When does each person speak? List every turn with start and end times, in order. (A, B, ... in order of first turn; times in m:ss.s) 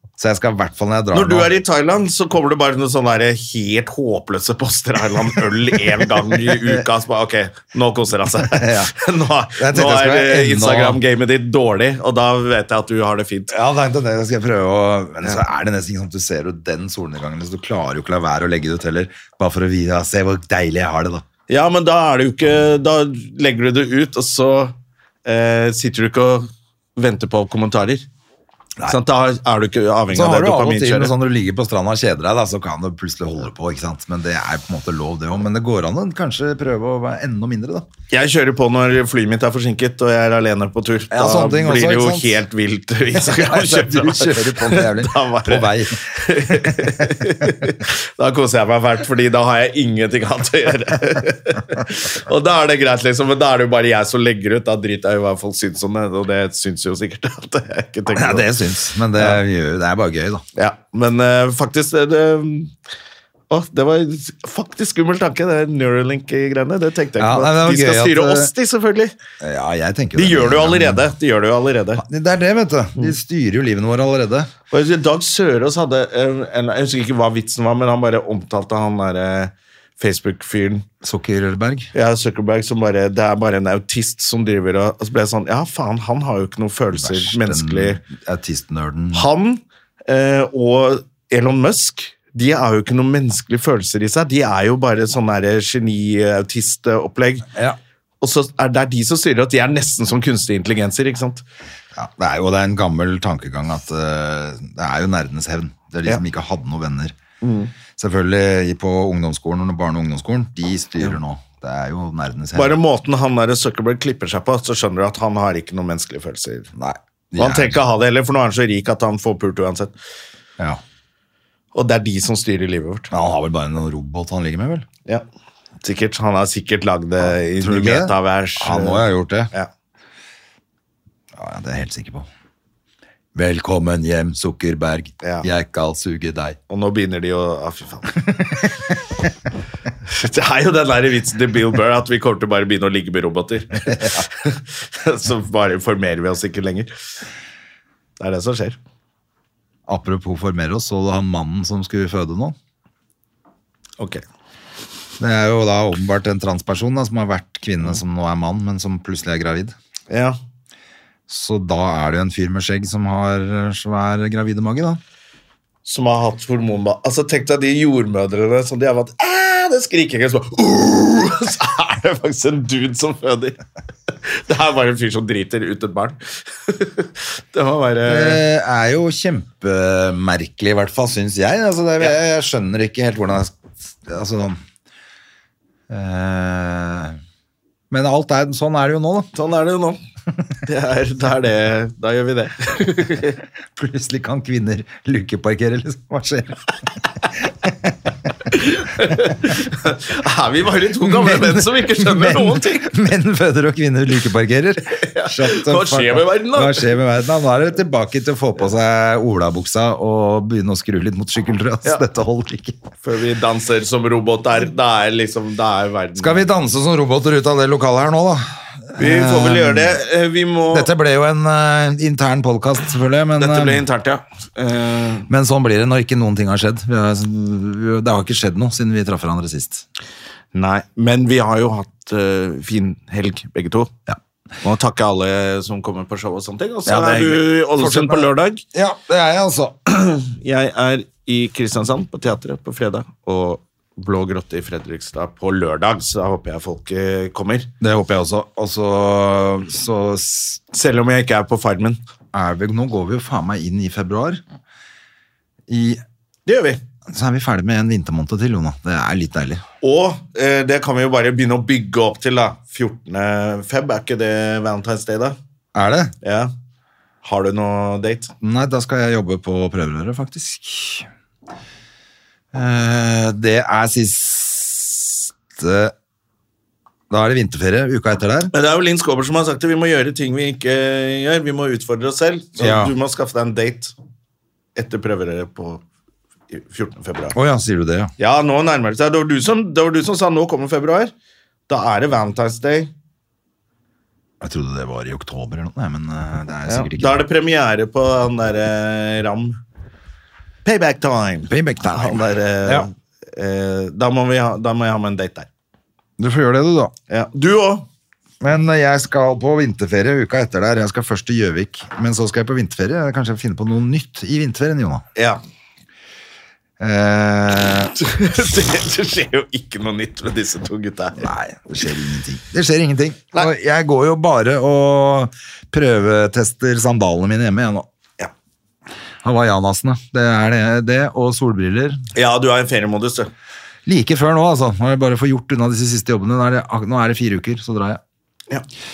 0:00.2-0:01.5 A
0:01.1-0:13.6 B
0:05.3-0:06.8 A
0:08.4-0:08.9 A
0:09.6-0:11.0 A
0:13.5-0:21.2 A
0:21.5-0:24.7 B
0:25.2-0:28.0 B
0:28.9-0:31.1 B
0:30.1-0:37.9 A
0:38.1-0:58.5 B
0:41.1-0:42.3 A
0:43.1-0:47.6 A
0:58.1-1:00.4 A
1:00.6-1:02.7 B
1:03.5-1:09.1 B
1:07.2-1:08.5 A
1:09.4-1:11.1 A
1:10.1-1:12.0 B
1:12.0-1:14.5 A
1:14.7-1:20.9 B
1:21.0-1:21.9 A
1:21.9-1:28.0 B
1:26.9-1:29.3 A
1:29.1-1:37.5 B
1:37.5-1:37.8 A
1:38.2-1:41.4 B
1:42.0-1:47.2 A
1:47.4-1:47.7 B
1:48.0-1:52.8 A
1:52.5-1:56.7 B
1:56.8-1:57.8 A
1:57.4-1:59.9 B
2:01.7-2:03.1 B
2:03.1-2:04.9 A
2:05.8-2:09.7 B
2:07.3-2:09.5 A
2:11.4-2:12.3 A
2:13.4-2:16.6 A
2:15.2-2:15.5 B
2:16.7-2:18.2 B
2:18.3-2:18.9 A
2:20.1-2:26.9 B
2:28.2-2:28.8 B
2:29.9-2:32.6 A
2:35.2-2:39.8 A
2:40.1-2:40.4 B
2:41.3-2:45.0 A
2:45.8-2:53.6 B
2:54.1-2:58.4 B
2:58.0-3:04.6 A
3:05.9-3:07.2 A
3:07.9-3:09.3 A
3:09.3-3:10.0 B
3:10.6-3:13.4 B
3:13.8-3:16.6 A
3:17.4-3:18.0 A
3:18.5-3:22.9 B
3:21.0-3:32.8 A
3:24.9-3:26.9 B
3:33.0-3:36.4 B
3:36.2-3:40.0 A
3:39.0-3:40.9 B
3:40.7-3:43.8 A
3:43.4-3:45.3 B
3:45.3-3:49.8 A
3:50.5-3:53.9 B
3:54.6-3:58.6 B
3:56.9-3:59.8 A
3:59.9-4:07.7 B
4:07.8-4:10.6 A
4:10.7-4:12.0 B
4:12.3-4:14.4 A
4:15.7-4:16.0 A
4:16.5-4:16.8 B
4:17.1-4:19.6 A
4:19.8-4:25.4 B
4:25.7-4:26.2 A
4:26.2-4:26.5 B
4:27.2-4:28.3 B
4:28.4-4:31.1 A
4:32.5-4:35.9 A
4:37.1-4:38.5 A
4:38.5-4:43.9 B
4:42.6-4:42.9 A
4:44.8-4:45.8 B
4:46.5-4:47.4 B
4:47.4-4:48.1 A
4:48.2-4:51.1 B
4:51.7-4:52.9 B
4:54.4-4:57.2 A
4:56.7-4:59.6 B
5:00.6-5:05.5 B
5:01.5-5:02.9 A
5:06.2-5:06.9 A
5:07.1-5:07.9 B
5:08.4-5:15.0 A
5:16.8-5:17.9 A
5:18.0-5:21.3 B
5:21.2-5:27.9 A
5:29.2-5:32.0 A
5:32.2-5:33.3 B
5:33.9-5:38.0 A